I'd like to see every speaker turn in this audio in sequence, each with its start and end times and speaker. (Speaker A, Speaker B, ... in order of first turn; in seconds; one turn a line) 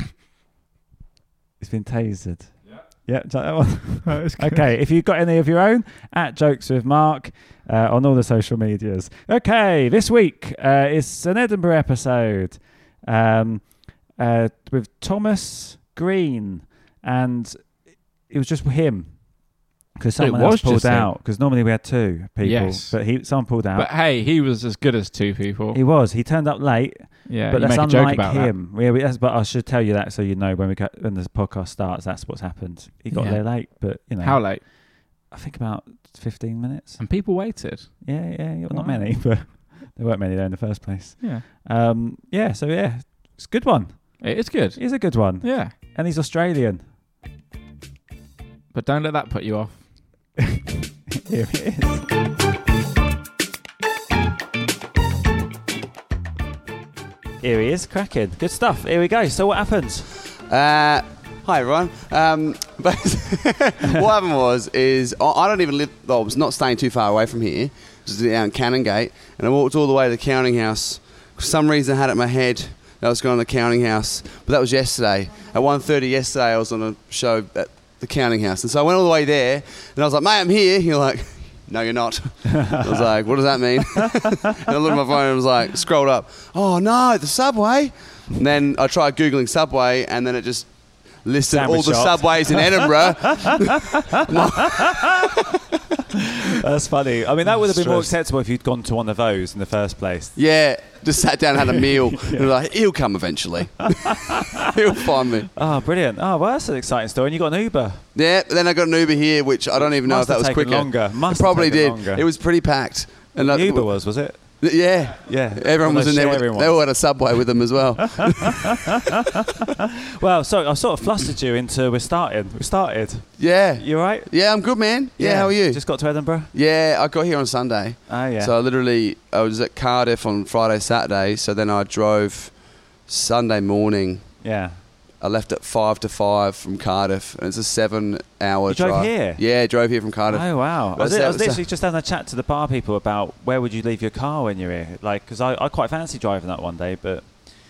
Speaker A: 1.6-23.9
Speaker B: 4.0-4.7
Speaker B: 20.1-21.1
Speaker B: 22.4-25.8
Speaker A: 25.7-37.2
Speaker B: 27.2-28.5
Speaker B: 33.1-34.6
Speaker B: 37.0-39.5
Speaker A: 38.0-46.9
Speaker B: 44.2-45.7
Speaker B: 48.7-50.4
Speaker A: 51.2-52.0
Speaker A: 57.4-60.1
Speaker C: 60.5-90.7
Speaker A: 82.5-83.1
Speaker A: 83.8-84.7
Speaker C: 91.2-95.3
Speaker A: 91.5-95.6
Speaker A: 96.1-100.3
Speaker C: 97.6-98.1
Speaker C: 100.3-105.5
Speaker A: 101.7-102.5
Speaker A: 104.0-104.4
Speaker A: 105.5-108.0
Speaker C: 108.1-113.9
Speaker A: 109.8-112.2
Speaker A: 113.4-114.4
Speaker C: 114.6-118.8
Speaker A: 115.2-116.8
Speaker A: 118.1-124.3
Speaker C: 123.4-125.8
Speaker A: 125.2-126.5
Speaker C: 126.5-132.5
Speaker A: 128.1-128.5
Speaker C: 133.1-134.2
Speaker A: 134.4-134.8
Speaker C: 135.2-141.6
Speaker A: 138.7-139.4
Speaker A: 140.3-147.4